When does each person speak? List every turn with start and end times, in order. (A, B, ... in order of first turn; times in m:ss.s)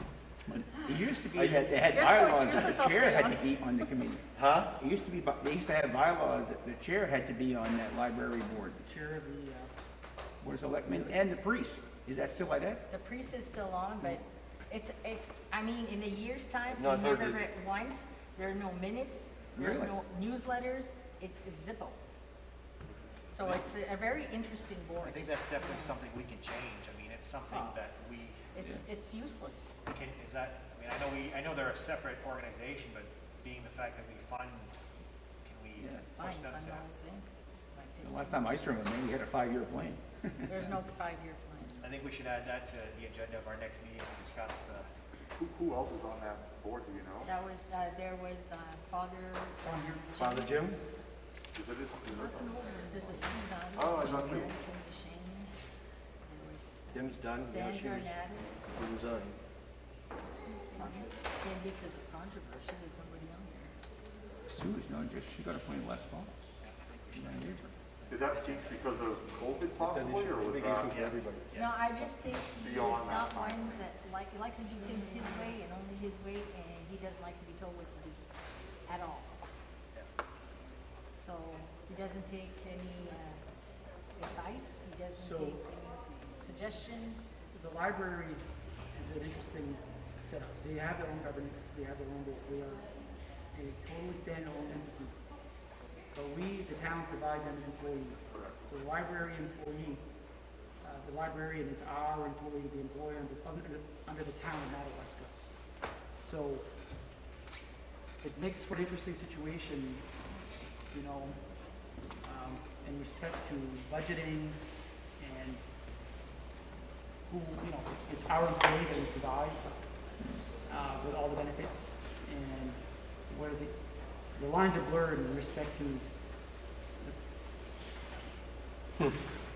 0:00.5-0:04.2 A
0:01.3-0:01.8 B
0:01.8-0:03.9 C
0:04.4-0:04.7 B
0:04.8-0:08.8 A
0:08.8-0:09.7 D
0:10.4-0:12.8 A
0:10.9-0:11.2 D
0:12.9-0:22.0 C
0:16.7-0:17.4 B
0:19.5-0:19.9 A
0:23.3-0:26.0 C
0:25.0-0:28.5 E
0:27.5-0:27.8 C
0:28.5-0:29.8 C
0:29.9-0:34.7 E
0:35.4-0:36.9 E
0:35.8-0:36.1 A
0:36.1-0:38.6 C
0:38.0-0:40.0 A
0:40.5-0:41.8 C
0:41.8-0:44.9 E
0:45.4-0:47.3 F
0:47.2-0:50.6 C
0:49.6-0:50.1 D
0:50.2-0:50.8 B
0:51.6-0:53.2 F
0:52.1-0:55.5 C
0:53.8-0:54.5 F
0:56.3-0:58.5 C
0:56.9-0:59.4 B
1:00.5-1:03.7 C
1:04.5-1:06.3 A
1:06.6-1:08.7 E
1:07.1-1:07.6 A
1:08.1-1:11.0 F
1:09.8-1:11.4 B
1:10.8-1:11.7 E
1:11.6-1:18.2 C
1:12.6-1:13.8 F
1:18.9-1:19.4 C
1:21.1-1:23.4 C
1:24.2-1:27.9 C
1:25.2-1:25.6 D
1:27.5-1:32.9 D
1:33.5-1:35.2 D
1:36.1-1:40.0 D
1:40.8-1:45.3 D
1:46.2-1:46.7 D
1:48.2-1:50.0 D
1:50.9-1:51.4 D
1:52.2-1:54.6 D
1:55.2-1:55.6 D
1:57.3-1:59.8 D
2:00.6-2:03.7 D
2:04.4-2:06.1 D